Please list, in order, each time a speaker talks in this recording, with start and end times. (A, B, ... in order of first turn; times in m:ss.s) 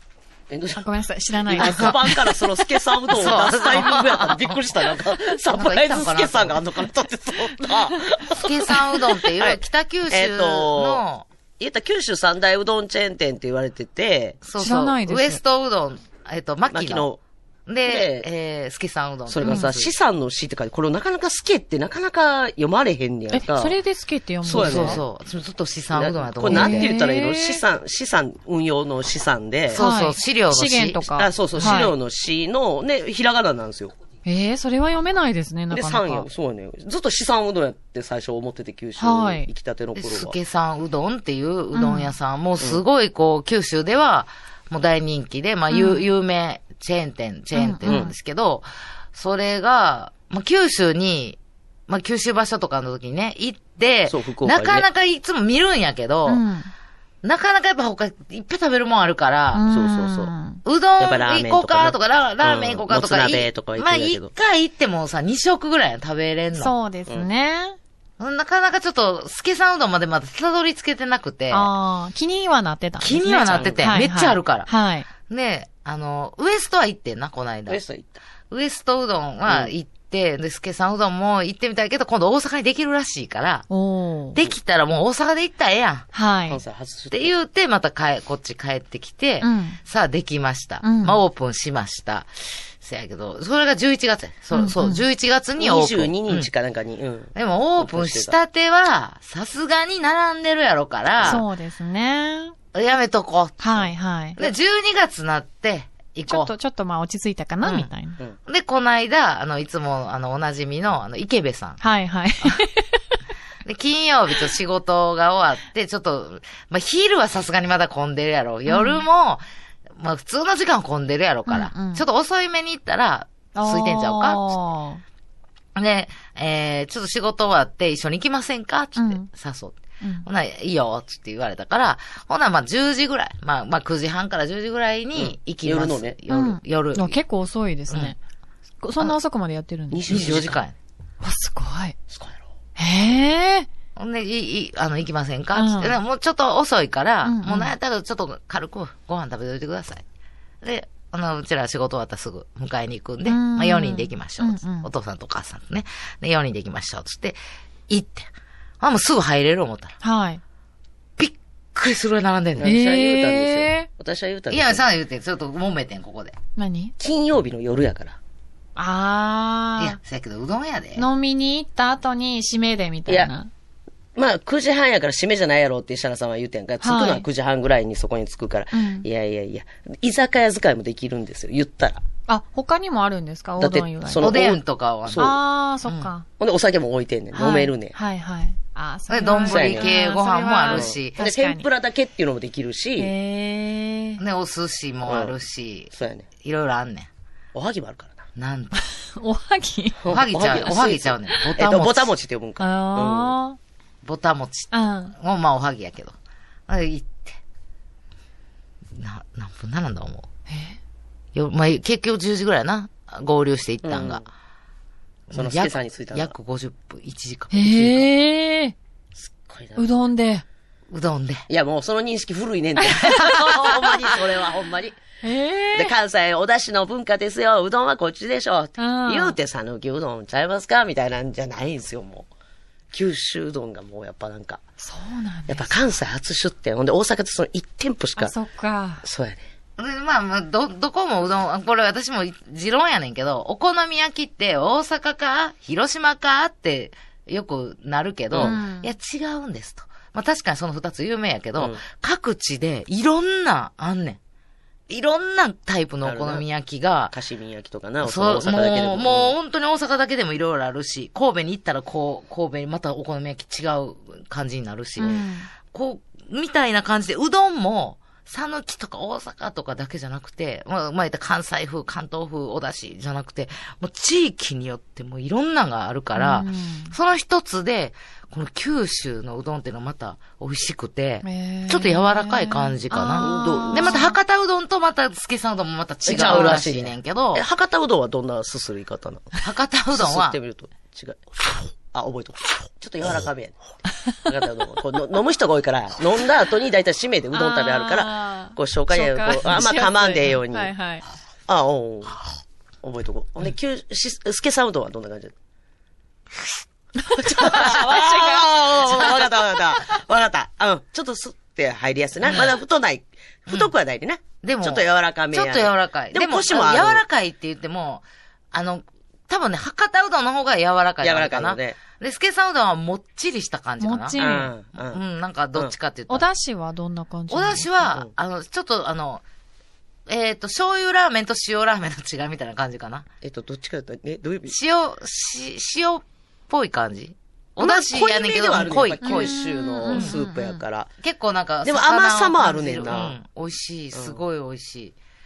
0:00.5-0:00.8 A
0:00.7-0:02.4 B
0:01.5-0:11.0 A
0:01.5-0:02.0 C
0:03.1-0:04.6 C
0:03.2-0:03.9 B
0:05.5-0:06.6 C
0:07.6-0:08.0 B
0:08.3-0:11.3 C
0:11.6-0:14.4 A
0:14.4-0:17.1 C
0:14.6-0:15.4 B
0:16.7-0:17.2 A
0:17.7-0:19.9 C
0:17.8-0:18.3 A
0:19.3-0:23.8 A
0:19.4-0:19.7 B
0:23.3-0:25.0 B
0:24.4-0:25.0 A
0:24.4-0:26.9 C
0:25.9-0:29.8 A
0:26.5-0:27.6 B
0:29.7-0:31.0 C
0:29.8-0:31.9 B
0:31.1-0:33.9 A
0:31.5-0:31.9 C
0:34.2-0:36.3 B
0:35.7-0:40.3 A
0:39.0-0:39.5 B
0:39.9-0:56.4 C
0:41.7-0:42.1 B
0:45.7-0:46.0 B
0:47.5-0:48.1 B
0:47.8-0:48.1 A
0:54.1-0:54.8 A
0:56.3-0:56.7 B
0:57.2-0:59.6 C
0:59.5-1:00.6 B
0:59.7-1:00.3 A
1:00.6-1:06.7 C
1:01.0-1:04.3 A
1:06.5-1:07.8 B
1:08.2-1:11.7 C
1:11.5-1:15.1 B
1:13.0-1:14.7 C
1:13.5-1:13.9 A
1:15.2-1:17.8 C
1:17.7-1:18.2 A
1:18.5-1:23.7 C
1:19.4-1:19.7 A
1:23.7-1:24.4 B
1:24.3-1:26.1 C
1:26.1-1:26.6 B
1:26.5-1:27.3 A
1:27.1-1:36.5 C
1:29.4-1:29.8 B
1:30.8-1:31.2 B
1:34.5-1:35.0 B
1:35.6-1:38.4 A
1:37.3-1:41.4 C
1:41.2-1:42.5 B
1:42.7-1:43.7 C
1:43.6-1:44.4 B
1:44.4-1:46.5 C
1:46.3-1:48.2 B
1:47.6-1:47.9 C
1:48.4-1:51.8 C
1:51.8-1:53.0 B
1:53.6-1:59.4 C
1:58.7-1:59.0 B
1:59.9-2:04.4 C
2:01.5-2:02.0 B
2:03.5-2:05.0 B
2:05.8-2:17.2 C
2:09.0-2:09.3 B
2:10.0-2:10.3 B
2:15.1-2:16.2 A
2:16.3-2:18.2 B
2:17.9-2:18.1 C
2:18.8-2:20.3 B
2:19.9-2:20.6 A
2:20.1-2:20.8 C
2:21.2-2:22.0 B
2:22.1-2:22.4 A
2:22.8-2:23.7 B
2:24.0-2:30.0 C
2:25.5-2:26.0 B
2:27.2-2:27.7 B
2:30.6-2:38.3 C
2:33.2-2:34.9 B
2:38.8-2:39.9 C
2:40.0-2:40.4 B
2:41.2-2:42.7 C
2:42.6-2:44.8 A
2:42.6-2:43.9 B
2:44.5-2:46.4 C
2:46.6-2:46.9 B
2:47.0-2:48.2 A
2:48.8-2:50.0 B
2:49.8-2:51.0 C
2:51.0-2:53.5 B
2:53.1-2:53.3 A
2:54.2-3:02.0 A
2:56.8-2:57.2 B
2:58.7-2:59.1 B
3:02.3-3:04.4 B
3:03.6-3:05.4 A
3:04.2-3:06.1 C
3:05.2-3:06.2 B
3:06.4-3:08.0 A
3:07.3-3:11.6 B
3:09.1-3:11.2 C
3:09.4-3:09.9 A
3:10.7-3:13.1 A
3:13.0-3:14.2 B
3:14.2-3:17.1 C
3:15.0-3:15.4 A
3:15.9-3:16.3 A
3:17.5-3:18.2 A
3:18.4-3:18.8 C
3:18.7-3:20.0 B
3:20.0-3:23.4 A
3:20.1-3:22.1 C
3:22.6-3:23.6 B
3:24.0-3:26.1 C
3:24.7-3:25.1 B
3:26.7-3:27.4 C
3:28.9-3:30.3 C
3:30.5-3:30.8 B
3:31.3-3:34.2 C
3:33.8-3:34.2 A
3:35.3-3:38.1 C
3:35.3-3:36.3 A
3:37.5-3:38.7 B
3:39.2-3:39.9 A
3:39.8-3:40.4 B
3:40.9-3:41.4 C
3:41.5-3:45.0 A
3:43.0-3:44.0 C
3:45.2-3:45.9 B
3:45.7-3:52.3 A
3:48.8-3:49.4 B
3:52.9-3:54.6 A
3:54.8-3:55.7 B
3:55.5-3:58.3 A
3:58.2-3:59.0 B
3:59.0-3:59.4 A
3:59.8-4:14.2 C
4:08.3-4:08.6 A
4:08.4-4:08.9 B
4:14.9-4:17.1 C
4:16.0-4:16.4 A
4:17.1-4:19.3 A
4:18.0-4:47.4 C
4:25.0-4:25.5 B
4:36.2-4:36.9 B
4:41.2-4:44.2 B
4:43.2-4:44.0 A
4:46.0-4:49.4 A
4:46.1-4:46.6 B
4:49.4-4:50.4 C
4:49.9-4:53.6 A
4:54.2-5:00.7 A
4:57.3-5:01.0 B
5:01.5-5:02.2 A
5:02.8-5:05.3 A
5:07.0-5:09.5 B
5:07.2-5:17.0 A
5:07.5-5:07.8 C
5:12.2-5:12.6 C
5:14.4-5:26.2 C
5:21.0-5:21.8 A
5:23.8-5:24.5 B
5:24.2-5:25.0 A
5:26.1-5:27.7 B
5:27.3-5:29.2 C
5:30.1-5:33.1 C
5:33.2-5:34.6 A
5:34.5-5:39.4 C
5:37.6-5:40.9 A
5:39.0-5:40.6 B
5:39.9-5:40.2 C
5:41.0-5:44.9 C
5:41.6-5:43.2 A
5:43.9-5:44.2 A